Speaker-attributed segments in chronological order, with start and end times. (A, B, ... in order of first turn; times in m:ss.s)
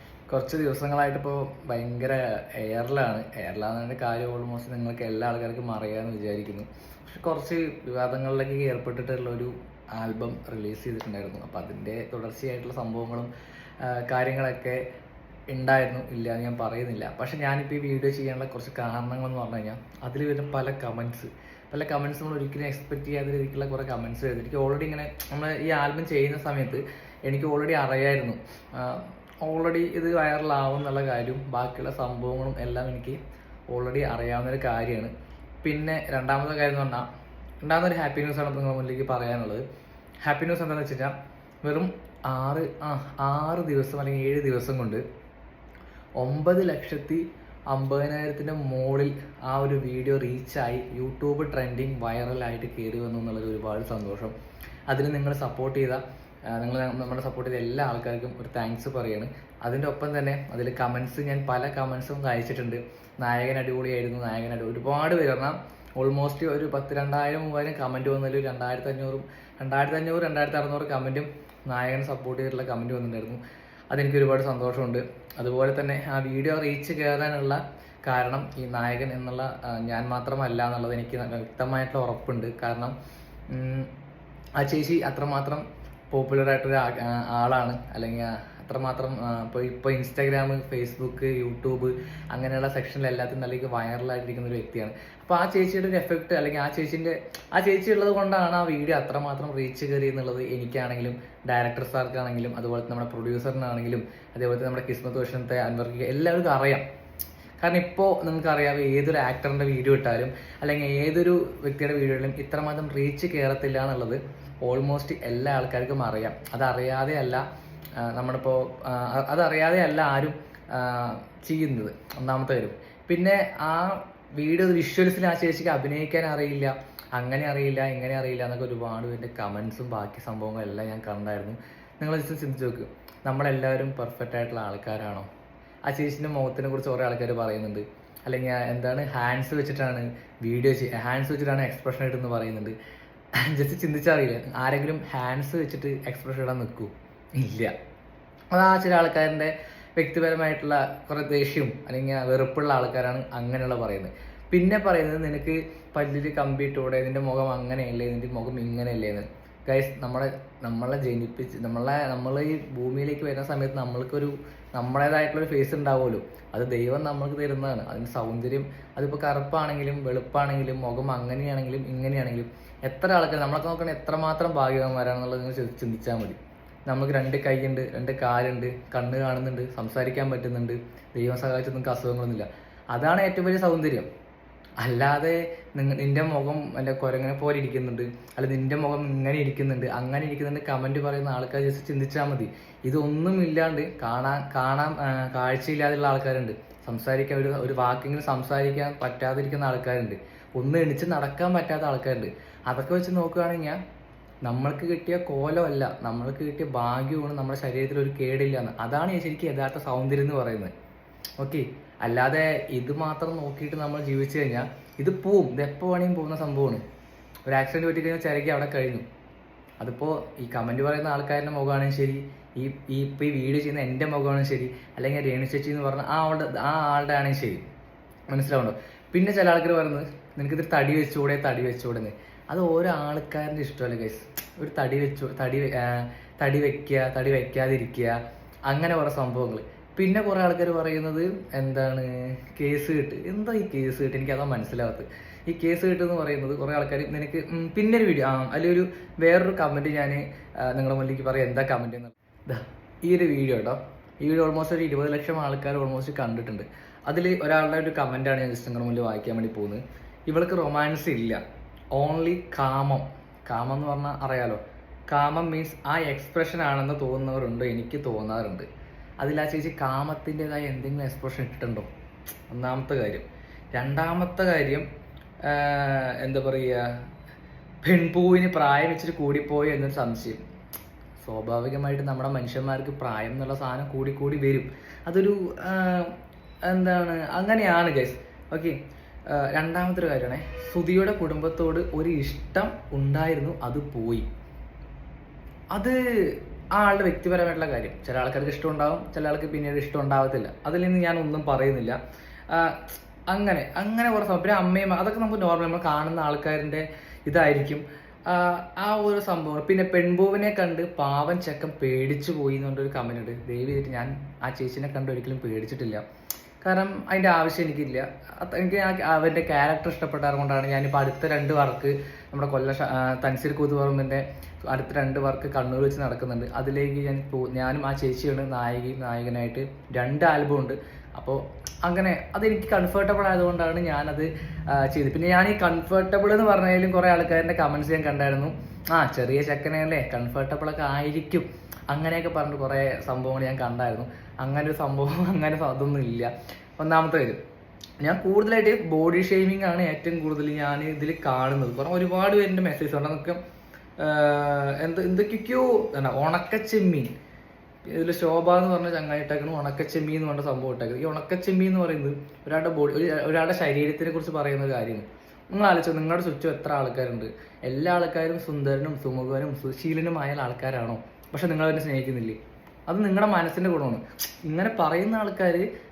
0:00.3-0:14.8 A
0:15.5-0:33.2 A
0:33.7-0:35.1 A
0:35.6-0:37.1 A
0:37.6-0:39.6 A
0:40.2-0:45.0 A
0:46.2-0:54.3 A
0:54.9-1:13.4 A
1:13.9-1:23.0 A
1:23.5-1:23.9 A
1:24.6-1:46.8 A
1:47.6-1:57.4 A
1:58.0-2:15.3 A
2:15.9-2:22.8 A
2:23.4-2:27.7 A
2:28.5-3:04.1 A
3:04.8-3:23.8 A
3:24.4-3:30.7 A
3:31.4-3:36.8 A
3:37.5-3:39.0 A
3:39.8-3:47.7 A
3:48.3-4:21.4 A
4:21.9-4:28.7 A
4:29.2-4:31.9 A
4:32.5-4:34.9 A
4:35.4-4:36.9 A
4:37.8-4:40.4 A
4:41.2-4:48.8 A
4:49.3-4:54.3 A
4:55.7-5:02.0 A
5:02.5-5:16.0 A
5:16.6-5:47.4 A
5:48.0-5:53.4 A
5:54.0-5:57.2 A
5:57.9-6:15.7 A